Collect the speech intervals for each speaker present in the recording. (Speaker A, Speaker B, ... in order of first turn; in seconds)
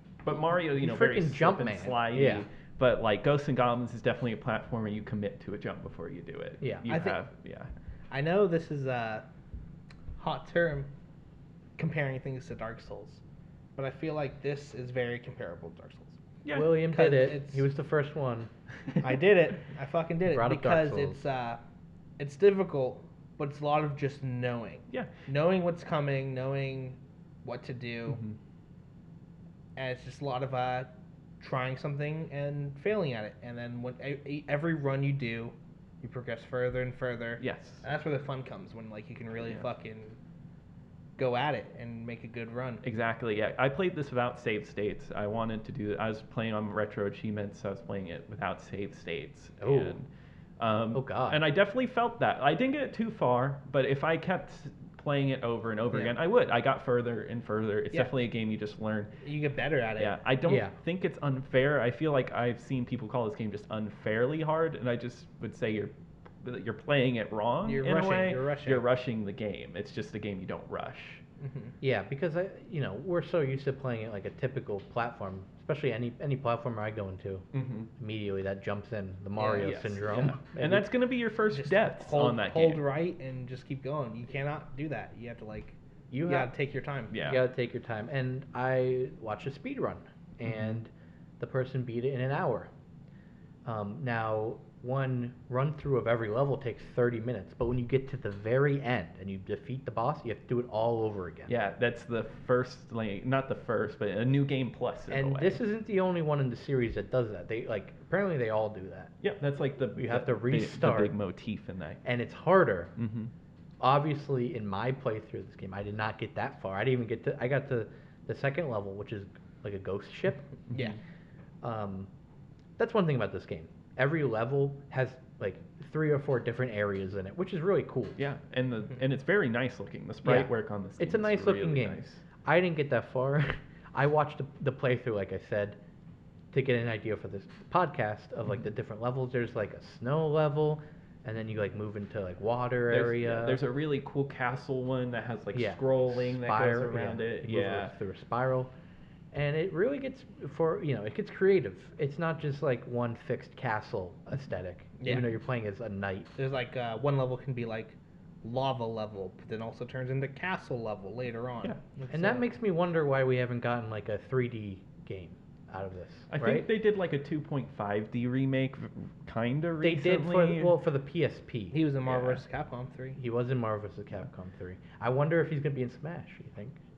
Speaker A: 0.2-7.7, 16.4-16.9, 28.1-28.4, 37.4-37.8, 42.8-50.1, 50.6-59.1, 60.0-71.2, 77.5-77.9, 79.6-82.8, 87.1-87.4, 90.5-90.8, 101.5-105.6, 109.2-112.0, 113.0-113.3, 120.7-121.0, 128.2-132.2, 142.9-147.9, 166.3-170.8, 172.1-172.4
Speaker B: 0.7-2.5, 6.6-6.9, 16.5-18.5, 20.3-21.2, 49.6-50.0, 50.9-51.4, 60.5-60.7, 71.8-77.5, 78.0-80.9, 86.1-86.5, 87.2-92.7, 93.7-101.5, 105.1-109.1, 110.0-111.1, 112.0-112.9, 113.8-120.5, 121.6-122.1, 122.8-128.2, 130.2-135.8, 136.5-143.6, 145.5-148.7, 149.3-156.3, 162.1-166.7, 169.8-171.8, 173.2-176.8
Speaker C: 6.9-7.2, 8.1-9.3, 10.2-10.9, 11.8-13.2, 13.8-16.2, 16.9-17.7, 19.0-21.6, 22.2-28.2, 29.8-40.2, 41.2-42.8, 59.2-60.2, 67.6-68.8, 71.4-71.7, 79.4-79.7, 81.5-87.1, 155.0-155.3, 156.4-162.4, 171.7-173.2